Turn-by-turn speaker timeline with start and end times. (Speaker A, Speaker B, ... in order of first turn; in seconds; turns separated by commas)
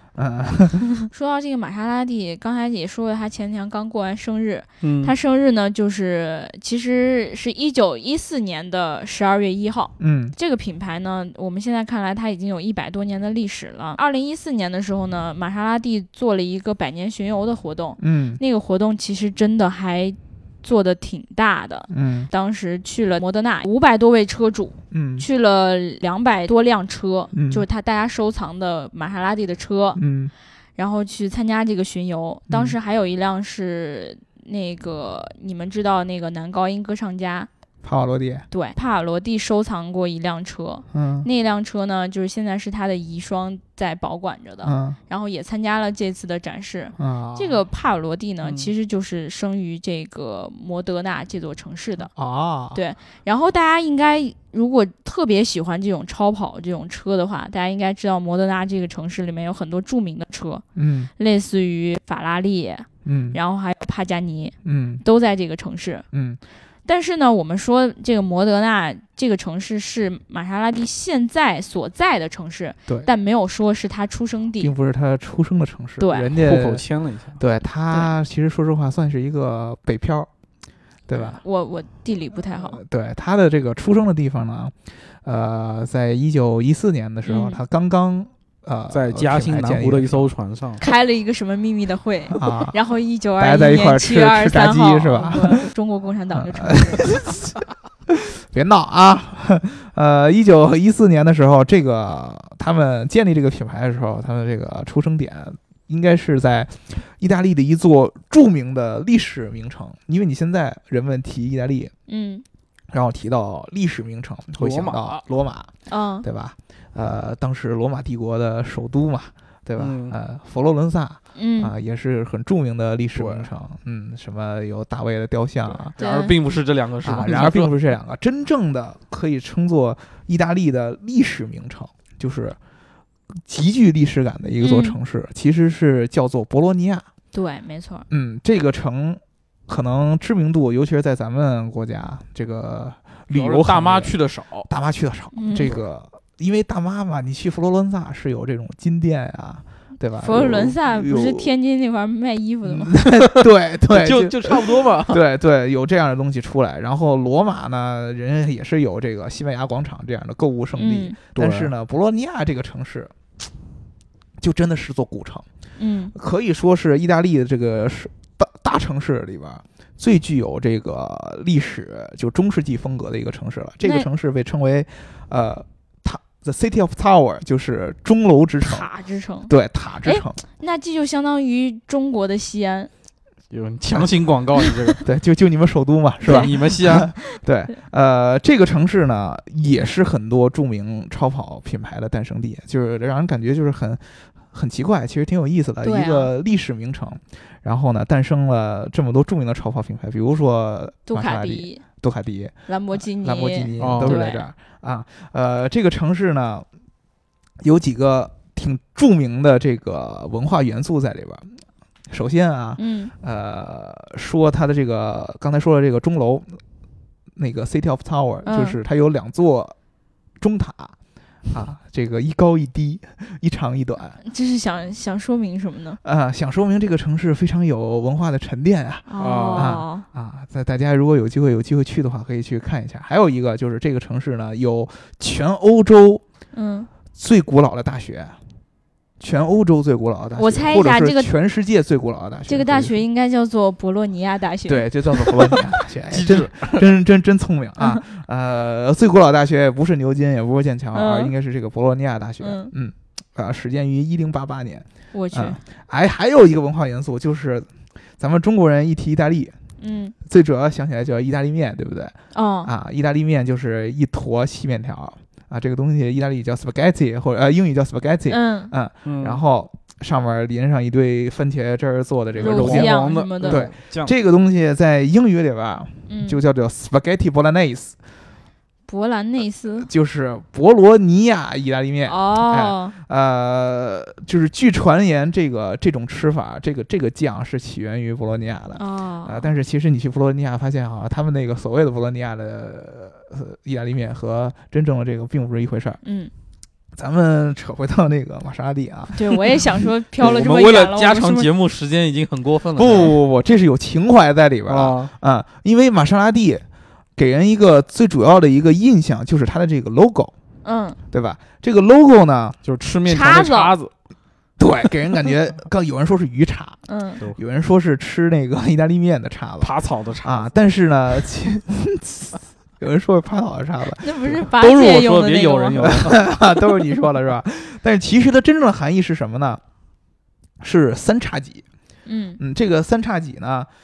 Speaker A: 0.1-0.9, Speaker B: 1.1-30.0, Speaker C: 4.8-5.1, Speaker A: 10.0-10.3, Speaker A: 18.0-18.4, Speaker A: 21.9-22.3, Speaker A: 24.9-25.2, Speaker A: 27.3-27.6, Speaker A: 30.0-30.3, Speaker B: 30.8-37.5, Speaker A: 32.5-32.7, Speaker A: 37.8-38.5, Speaker B: 38.5-52.1, Speaker A: 40.9-41.3, Speaker A: 44.6-45.0, Speaker A: 47.0-47.6, Speaker A: 52.1-52.8, Speaker B: 52.7-60.6, Speaker A: 60.7-61.1, Speaker B: 61.2-66.0, Speaker A: 63.0-63.4, Speaker A: 64.6-65.0, Speaker A: 66.1-66.4, Speaker B: 66.8-74.7, Speaker A: 74.6-76.9, Speaker B: 76.0-76.3, Speaker C: 76.3-77.4, Speaker A: 77.4-80.3, Speaker A: 81.1-81.4, Speaker B: 81.1-82.8, Speaker A: 82.5-90.3, Speaker B: 87.3-87.6, Speaker C: 88.9-90.8, Speaker B: 90.8-97.3, Speaker A: 92.3-92.8, Speaker A: 93.4-95.7, Speaker A: 96.3-111.9, Speaker B: 112.1-112.4, Speaker A: 112.9-115.7, Speaker C: 114.6-115.2, Speaker B: 115.9-116.2, Speaker A: 116.2-126.0, Speaker C: 119.8-120.2, Speaker B: 121.3-121.7, Speaker C: 123.1-123.5, Speaker C: 125.7-127.7, Speaker B: 126.0-126.3, Speaker A: 127.0-132.6, Speaker A: 133.3-137.1, Speaker B: 134.6-135.0, Speaker B: 137.3-138.0, Speaker A: 138.1-144.1, Speaker C: 143.3-144.7, Speaker A: 144.7-151.5, Speaker B: 145.3-145.7, Speaker B: 150.2-153.0, Speaker A: 152.6-163.1, Speaker C: 153.9-155.2, Speaker B: 160.8-161.2, Speaker C: 161.3-161.7, Speaker A: 164.4-165.4, Speaker B: 165.8-166.1, Speaker A: 166.1-178.9, Speaker B: 178.6-182.9, Speaker A: 179.5-180.4, Speaker C: 183.5-185.0, Speaker A: 185.0-206.7, Speaker C: 186.2-187.1, Speaker B: 195.8-196.3, Speaker B: 201.1-201.8, Speaker B: 202.7-204.4, Speaker C: 203.8-204.2, Speaker A: 207.6-216.6, Speaker B: 212.8-213.1, Speaker A: 217.3-219.8, Speaker B: 218.4-218.8, Speaker A: 220.4-220.9, Speaker A: 221.5-224.2, Speaker B: 224.2-226.0, Speaker A: 226.0-236.2, Speaker B: 229.1-230.0, Speaker C: 229.2-229.8, Speaker B: 236.5-236.9, Speaker A: 237.1-238.4, Speaker A: 239.2-243.0, Speaker B: 240.3-241.3, Speaker B: 242.5-245.6, Speaker A: 244.7-259.6, Speaker C: 246.1-246.9, Speaker B: 250.9-251.3, Speaker B: 252.4-252.7, Speaker B: 255.1-255.6, Speaker B: 259.8-260.1, Speaker A: 260.2-277.9, Speaker B: 262.3-262.7, Speaker B: 268.3-268.7, Speaker C: 269.0-269.4, Speaker C: 272.4-274.1, Speaker B: 272.4-273.7, Speaker B: 276.1-276.4, Speaker B: 278.9-279.9, Speaker A: 279.8-296.0, Speaker B: 282.1-282.9, Speaker B: 288.8-289.5, Speaker B: 296.0-296.3, Speaker A: 296.9-299.7, Speaker B: 299.1-301.5, Speaker C: 300.2-303.1, Speaker A: 302.7-306.6, Speaker C: 304.7-305.1, Speaker A: 307.1-310.3, Speaker B: 310.6-311.0, Speaker A: 311.1-312.6, Speaker C: 312.6-313.9, Speaker B: 313.1-313.7, Speaker A: 314.6-324.4, Speaker B: 316.9-317.2, Speaker C: 319.6-320.5, Speaker B: 324.0-325.9, Speaker C: 324.5-326.2, Speaker A: 325.8-329.6, Speaker A: 330.6-331.6, Speaker B: 332.1-332.4, Speaker A: 332.4-333.7